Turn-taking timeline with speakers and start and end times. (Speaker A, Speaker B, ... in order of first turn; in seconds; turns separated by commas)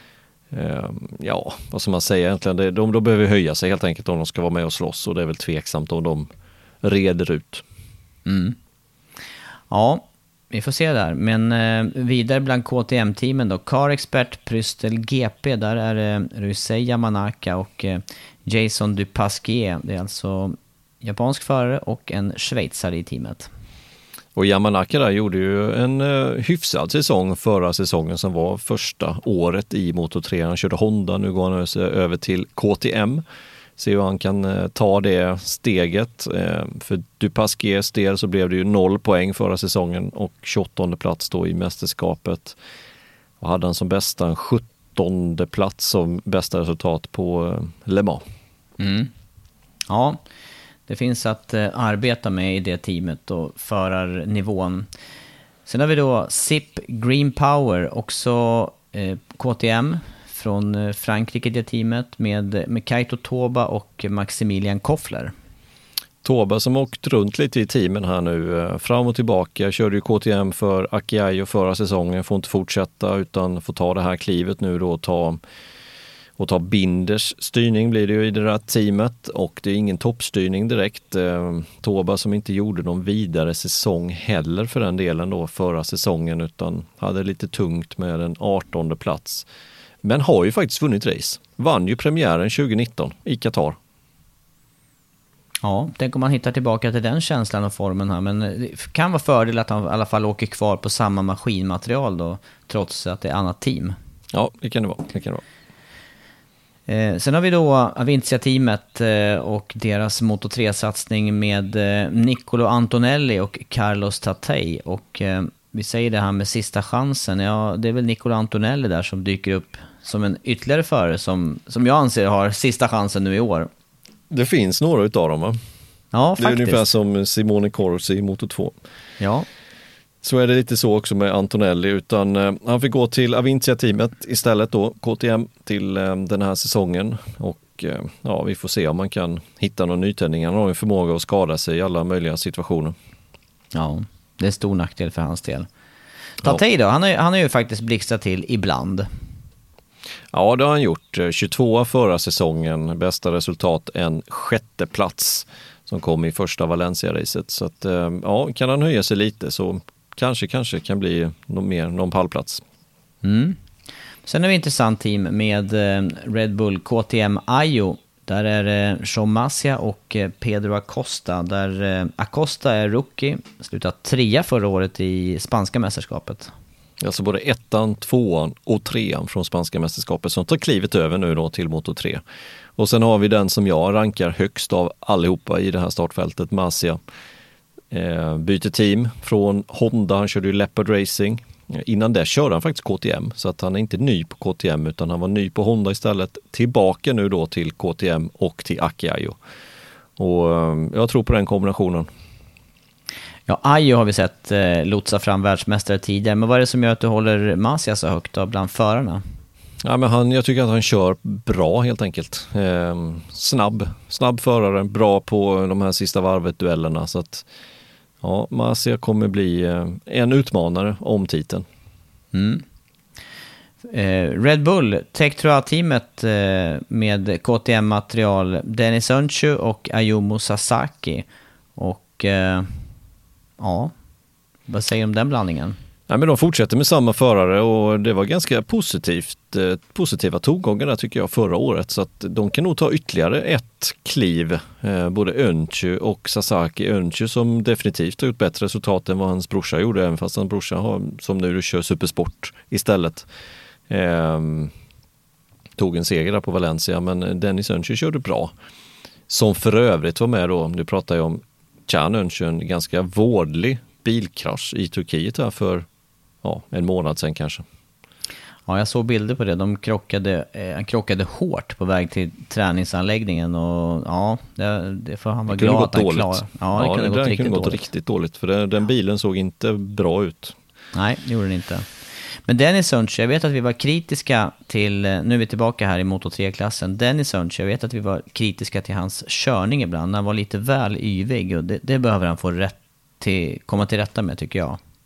Speaker A: 0.5-6.3, Speaker A: 6.8-7.6, Speaker B: 8.2-8.6, Speaker B: 9.7-23.5, Speaker A: 24.4-33.2, Speaker A: 33.8-42.6, Speaker A: 43.4-48.2, Speaker B: 48.8-49.1, Speaker B: 49.9-50.2, Speaker B: 50.9-54.9, Speaker B: 55.6-65.3, Speaker A: 66.2-75.4, Speaker A: 76.4-89.5, Speaker A: 90.0-93.8, Speaker B: 95.6-104.0, Speaker A: 104.3-105.4, Speaker B: 106.9-123.7, Speaker A: 124.3-125.6, Speaker B: 126.1-126.9, Speaker A: 126.4-128.7, Speaker B: 129.2-129.5, Speaker A: 130.2-142.9, Speaker B: 143.7-145.7, Speaker B: 146.4-149.1, Speaker A: 150.3-162.6, Speaker B: 163.2-163.6, Speaker B: 164.2-176.5, Speaker A: 177.0-182.2, Speaker A: 182.8-187.0, Speaker A: 187.9-199.4, Speaker A: 200.2-202.1, Speaker B: 203.5-209.2, Speaker A: 209.8-217.5, Speaker A: 218.2-221.7, Speaker B: 222.3-222.6, Speaker B: 223.8-232.8, Speaker B: 233.6-233.9, Speaker B: 234.7-235.8, Speaker A: 236.1-253.3, Speaker A: 253.9-254.7, Speaker A: 255.8-258.5, Speaker A: 259.3-265.9, Speaker A: 266.4-267.6, Speaker B: 268.7-277.9, Speaker A: 275.5-280.6, Speaker B: 280.9-281.9, Speaker B: 282.4-294.8